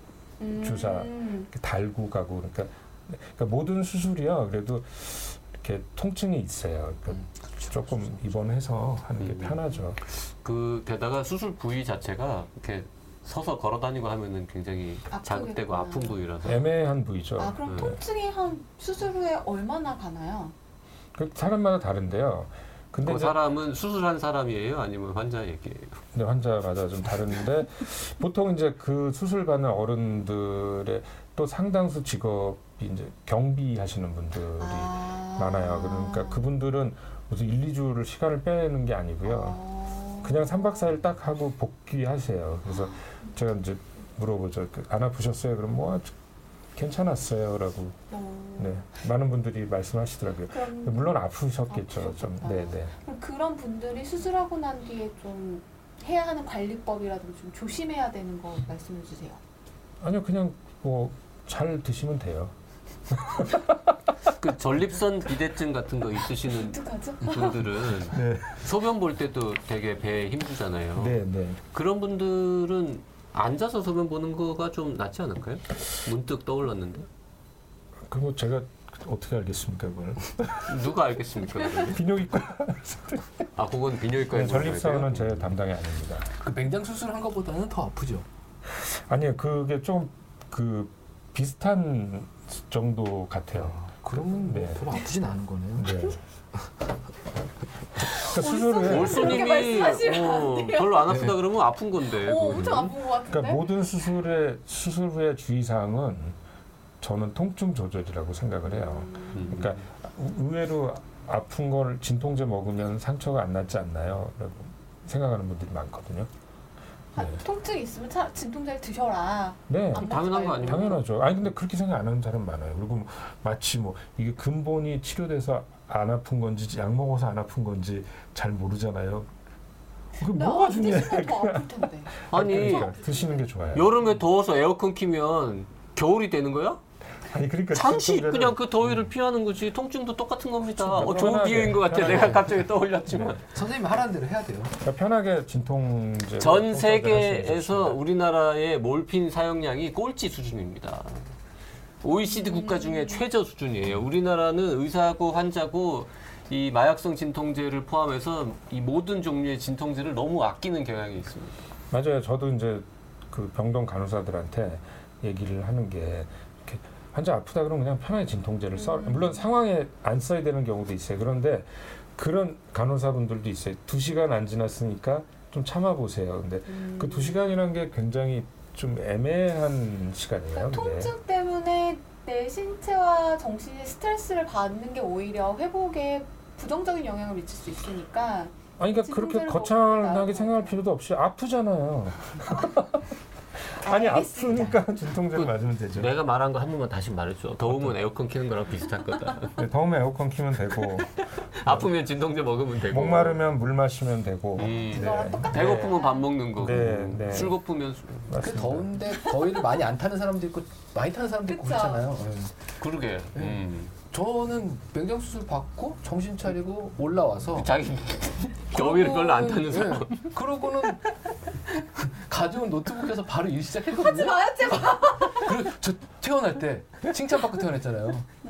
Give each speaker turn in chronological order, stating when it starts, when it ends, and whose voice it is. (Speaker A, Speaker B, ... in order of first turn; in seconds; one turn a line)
Speaker A: 0.4-1.5
Speaker B: 0.5-10.0
Speaker C: 7.1-8.2
Speaker D: 9.2-16.6
Speaker A: 15.1-16.2
Speaker B: 16.4-17.9
Speaker A: 17.4-20.5
Speaker D: 17.7-17.9
Speaker B: 21.1-23.4
Speaker D: 23.0-26.0
Speaker B: 26.1-39.6
Speaker A: 34.6-36.5
Speaker A: 39.2-40.9
Speaker B: 40.2-46.1
Speaker A: 42.7-43.3
Speaker B: 46.7-48.0
Speaker A: 48.1-48.9
Speaker B: 48.6-52.9
Speaker A: 50.5-59.4
Speaker B: 60.0-62.5
Speaker B: 63.1-63.8
Speaker D: 64.4-71.2
Speaker A: 66.5-67.6
Speaker B: 68.1-68.7
Speaker B: 71.0-71.6
Speaker D: 71.7-77.1
Speaker B: 78.1-80.9
Speaker D: 80.7-82.0
Speaker B: 81.9-83.5
Speaker D: 83.6-85.5
Speaker B: 84.3-86.3
Speaker C: 86.4-88.2
Speaker B: 88.7-95.0
Speaker C: 93.6-96.0
Speaker B: 95.8-96.2
Speaker B: 98.0-99.6
Speaker A: 98.1-101.2
Speaker D: 98.8-103.0
Speaker C: 101.1-101.3
Speaker A: 102.2-103.7
Speaker B: 103.3-106.4
Speaker B: 107.0-116.3
Speaker A: 108.7-109.5
Speaker D: 109.3-109.8
Speaker A: 117.2-121.0
Speaker B: 117.2-117.4
Speaker B: 119.7-129.3
Speaker D: 120.0-121.0
Speaker B: 130.2-133.9
Speaker A: 130.2-133.4
Speaker D: 132.3-132.9
Speaker D: 133.7-136.8
Speaker B: 137.3-139.0
Speaker D: 137.7-143.4
Speaker B: 140.7-143.4
Speaker C: 143.5-144.8
Speaker B: 144.8-148.0
Speaker D: 146.4-151.3
Speaker D: 152.0-161.6
Speaker A: 152.5-153.2
Speaker B: 161.9-181.1
Speaker A: 168.8-169.4
Speaker A: 176.7-177.4
Speaker A: 180.5-190.8
Speaker B: 188.8-193.0
Speaker B: 193.7-196.1
Speaker A: 193.8-194.8
Speaker D: 195.3-199.6
Speaker B: 197.7-197.9
Speaker B: 199.6-201.9
Speaker D: 201.5-203.4
Speaker B: 202.8-205.9
Speaker D: 204.6-208.4
Speaker A: 204.9-206.3
Speaker B: 206.5-207.6
Speaker B: 208.3-209.0
Speaker C: 208.4-212.5
Speaker A: 211.5-212.1
Speaker D: 212.8-213.9
Speaker C: 214.1-217.7
Speaker D: 217.6-220.3
Speaker C: 218.7-221.1
Speaker C: 221.8-228.3
Speaker A: 224.0-225.5